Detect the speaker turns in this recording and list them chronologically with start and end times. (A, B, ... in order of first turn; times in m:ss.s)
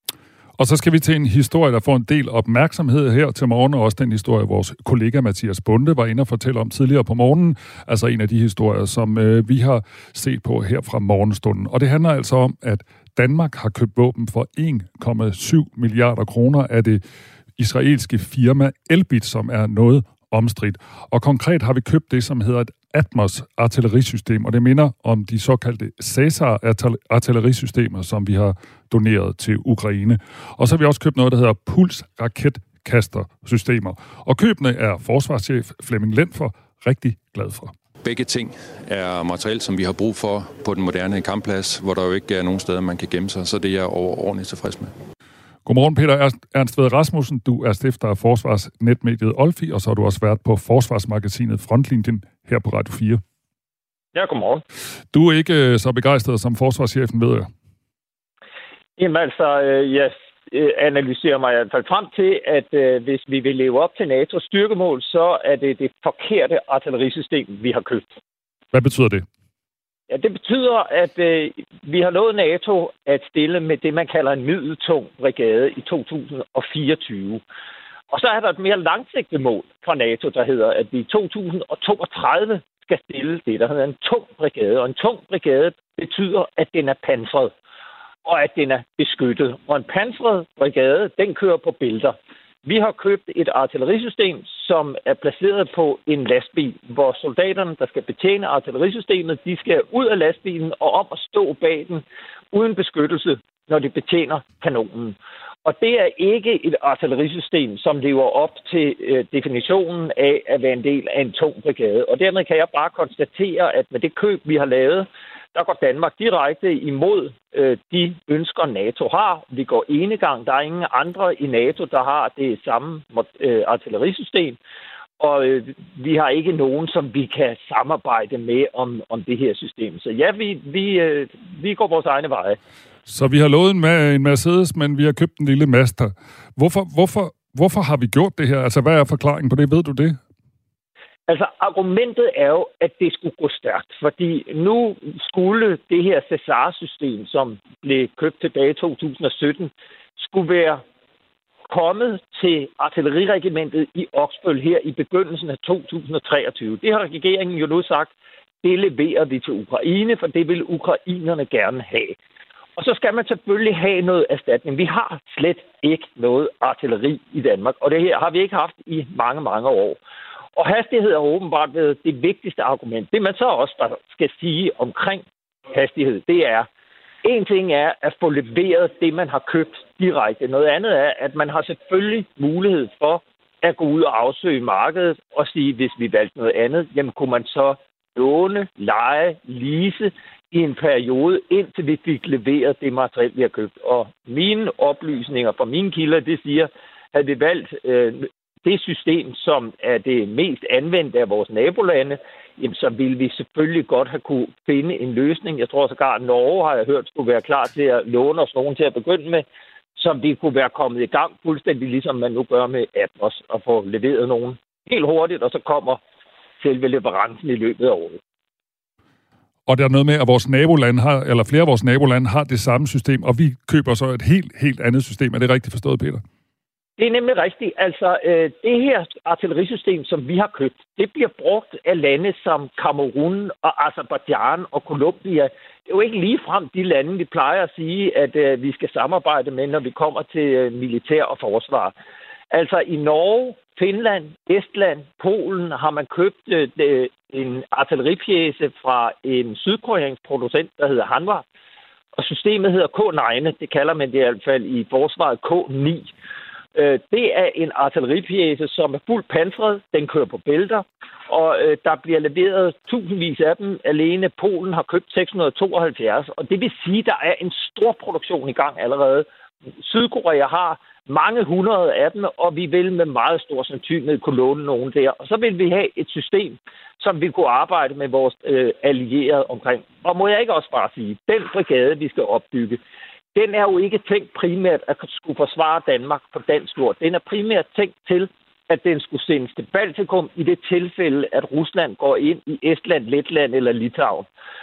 0:00.6-0:17.0 A
0:17.6-0:37.7 A
0:38.0-0:45.0 B
0:45.7-0:53.2 A
0:54.2-0:54.6 C
0:55.1-0:57.5 A
0:59.0-1:08.1 C
1:08.7-1:09.2 A
1:10.1-1:17.4 C
1:18.1-1:27.5 C
1:28.2-2:04.6 C
2:05.2-2:12.6 C
2:13.1-2:20.2 A
2:21.3-2:30.8 C
2:31.7-2:38.1 C
2:38.6-2:42.2 C
2:42.8-2:50.0 C
2:50.6-2:56.7 C
2:57.2-3:29.4 C
3:30.0-3:36.0 C
3:36.6-3:38.2 C
3:39.7-3:46.2 A
3:47.0-4:01.9 C
4:02.5-4:11.4 C
4:12.2-4:16.1 C
4:16.8-4:29.3 C
4:29.8-4:42.8 C
4:43.4-4:54.3 C